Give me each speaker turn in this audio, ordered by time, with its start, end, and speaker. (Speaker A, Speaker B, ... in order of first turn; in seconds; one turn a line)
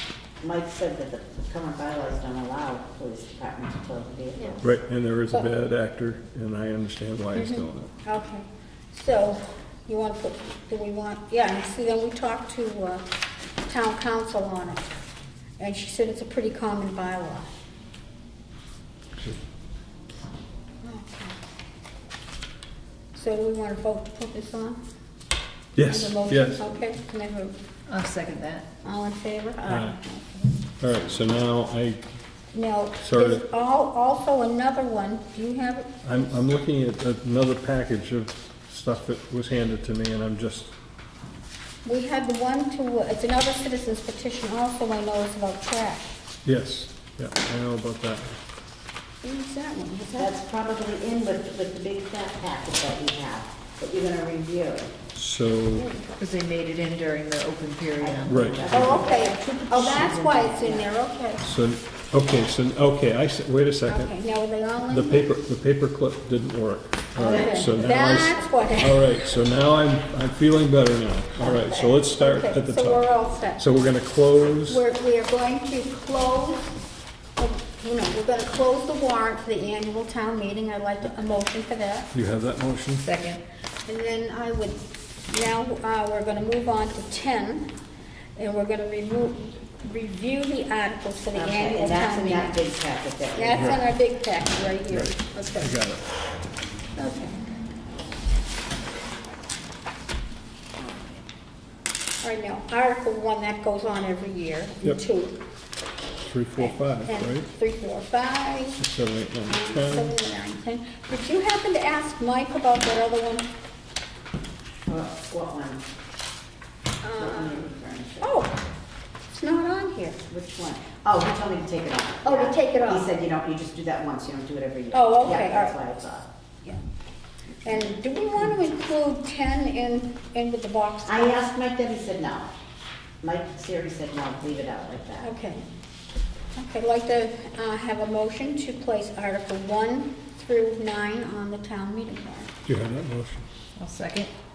Speaker A: 0.4-4.7
Speaker B: 4.4-4.7
Speaker C: 4.6-7.9
Speaker B: 7.3-13.1
Speaker B: 13.7-14.9
Speaker B: 15.6-17.5
Speaker B: 20.8-21.4
Speaker B: 23.1-24.8
Speaker C: 25.8-26.8
Speaker B: 25.8-27.6
Speaker D: 27.9-28.7
Speaker B: 28.8-30.6
Speaker C: 29.6-30.0
Speaker C: 30.8-32.0
Speaker B: 32.5-36.0
Speaker C: 33.0-33.4
Speaker C: 36.0-40.7
Speaker B: 41.9-46.1
Speaker C: 46.5-48.4
Speaker B: 49.2-50.4
Speaker A: 50.2-54.9
Speaker C: 55.1-55.9
Speaker B: 55.8-56.1
Speaker D: 56.2-58.6
Speaker A: 58.0-60.9
Speaker C: 58.3-59.0
Speaker B: 58.7-61.4
Speaker C: 61.4-64.1
Speaker B: 63.9-65.3
Speaker C: 64.9-73.1
Speaker A: 67.2-68.2
Speaker B: 67.2-69.0
Speaker A: 71.4-72.0
Speaker B: 72.2-73.6
Speaker C: 73.6-74.8
Speaker B: 74.7-76.8
Speaker B: 77.4-82.1
Speaker C: 82.1-83.1
Speaker D: 83.0-83.4
Speaker B: 83.9-87.7
Speaker B: 88.4-92.6
Speaker A: 91.3-93.8
Speaker B: 93.3-95.8
Speaker C: 93.5-93.8
Speaker C: 94.9-96.1
Speaker B: 97.0-97.4
Speaker B: 102.2-105.4
Speaker C: 106.2-107.5
Speaker B: 106.6-108.8
Speaker C: 108.8-110.1
Speaker B: 109.5-113.5
Speaker A: 114.9-115.8
Speaker B: 117.0-117.7
Speaker A: 117.2-118.4
Speaker B: 118.2-118.6
Speaker B: 119.3-120.2
Speaker A: 120.3-126.3
Speaker B: 122.2-123.1
Speaker B: 124.9-125.8
Speaker B: 127.6-131.5
Speaker A: 131.1-132.5
Speaker A: 133.2-135.3
Speaker B: 135.2-135.6
Speaker B: 136.6-142.5
Speaker C: 142.7-143.5
Speaker D: 143.8-144.3